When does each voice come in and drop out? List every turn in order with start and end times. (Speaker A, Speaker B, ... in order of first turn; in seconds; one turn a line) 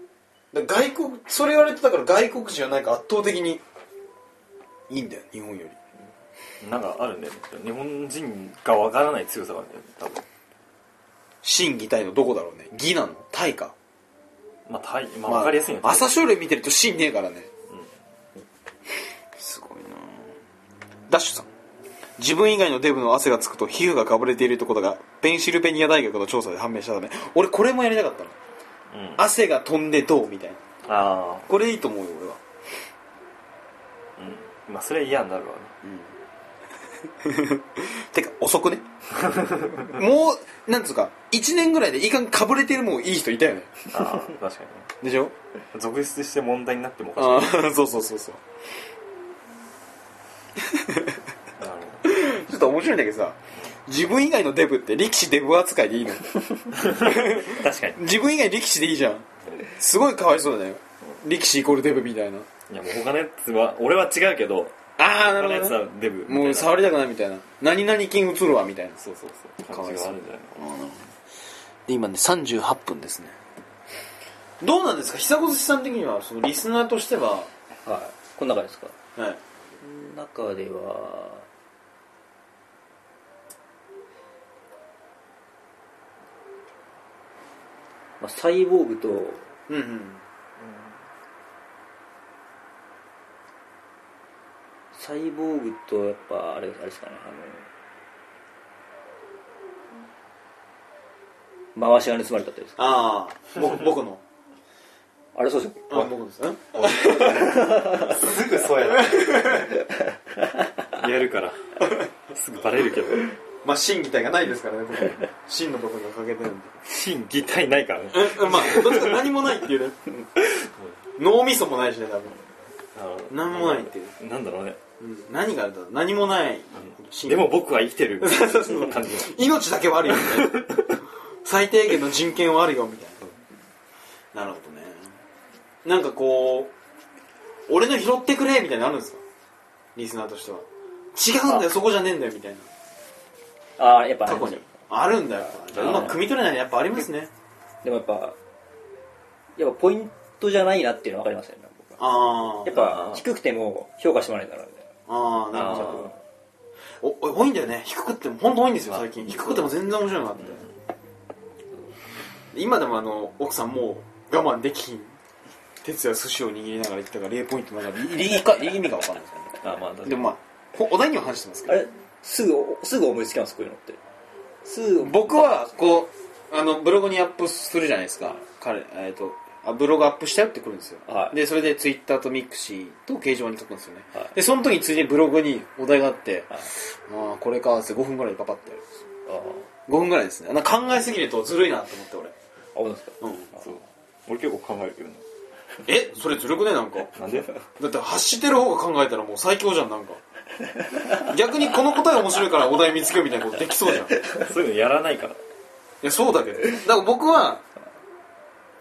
Speaker A: 0.5-3.6
Speaker A: 4.9-5.8
Speaker B: 6.6-10.2
Speaker A: 11.4-13.8
Speaker B: 14.7-16.1
Speaker A: 15.2-17.5
Speaker A: 19.4-20.3
Speaker A: 21.1-21.5
Speaker A: 22.2-28.4
Speaker B: 28.9-29.2
Speaker A: 29.2-30.6
Speaker B: 30.8-31.5
Speaker A: 31.5-32.4
Speaker B: 34.2-35.7
Speaker A: 35.8-36.1
Speaker A: 37.2-38.9
Speaker B: 39.2-40.0
Speaker A: 39.7-43.8
Speaker B: 43.9-44.9
Speaker A: 45.0-45.4
Speaker B: 45.7-47.7
Speaker A: 47.2-48.4
Speaker A: 50.7-51.2
Speaker B: 51.6-52.1
Speaker A: 52.0-62.5
Speaker B: 56.7-58.0
Speaker B: 62.7-66.9
Speaker A: 65.0-69.0
Speaker B: 69.0-70.8
Speaker A: 69.7-71.1
Speaker A: 71.9-73.4
Speaker A: 74.6-77.5
Speaker C: 77.8-79.0
Speaker C: 79.8-81.5
Speaker C: 88.2-89.5
Speaker A: 89.7-90.2
Speaker C: 94.9-97.7
Speaker C: 101.8-102.8
Speaker A: 102.8-104.2
Speaker C: 105.3-106.1
Speaker A: 105.9-108.0
Speaker C: 107.1-108.2
Speaker B: 107.8-109.5
Speaker A: 108.8-109.7
Speaker B: 110.9-113.4
Speaker A: 113.6-116.8
Speaker B: 116.8-119.3
Speaker A: 118.1-120.0
Speaker B: 120.4-121.0
Speaker A: 121.2-122.4
Speaker B: 123.0-124.8
Speaker A: 123.3-124.1
Speaker A: 125.0-127.5
Speaker B: 126.8-129.3
Speaker A: 128.2-130.8
Speaker B: 130.1-131.0
Speaker A: 131.4-133.3
Speaker A: 134.3-135.1
Speaker A: 135.8-136.7
Speaker A: 137.7-139.2
Speaker A: 140.0-142.7
Speaker C: 143.8-144.8
Speaker A: 144.2-147.3
Speaker C: 145.4-146.2
Speaker B: 145.7-146.1
Speaker C: 147.8-148.4
Speaker C: 149.6-152.1
Speaker A: 152.0-152.8
Speaker C: 152.6-154.9
Speaker B: 152.7-153.2
Speaker A: 155.1-156.1
Speaker B: 155.5-156.1
Speaker C: 155.6-156.1
Speaker A: 157.0-160.6
Speaker B: 160.4-160.7
Speaker A: 162.5-165.2
Speaker A: 165.8-171.8
Speaker B: 169.6-170.3
Speaker C: 171.7-174.0
Speaker C: 174.6-175.7
Speaker A: 175.0-189.0
Speaker C: 181.1-181.4
Speaker C: 189.3-189.6
Speaker A: 189.9-192.3
Speaker C: 192.8-193.2
Speaker A: 193.2-193.5
Speaker B: 193.6-195.2
Speaker A: 195.9-197.1
Speaker B: 197.1-197.6
Speaker A: 197.8-200.2
Speaker A: 201.1-204.2
Speaker C: 204.1-204.5
Speaker B: 204.4-205.4
Speaker A: 206.0-207.6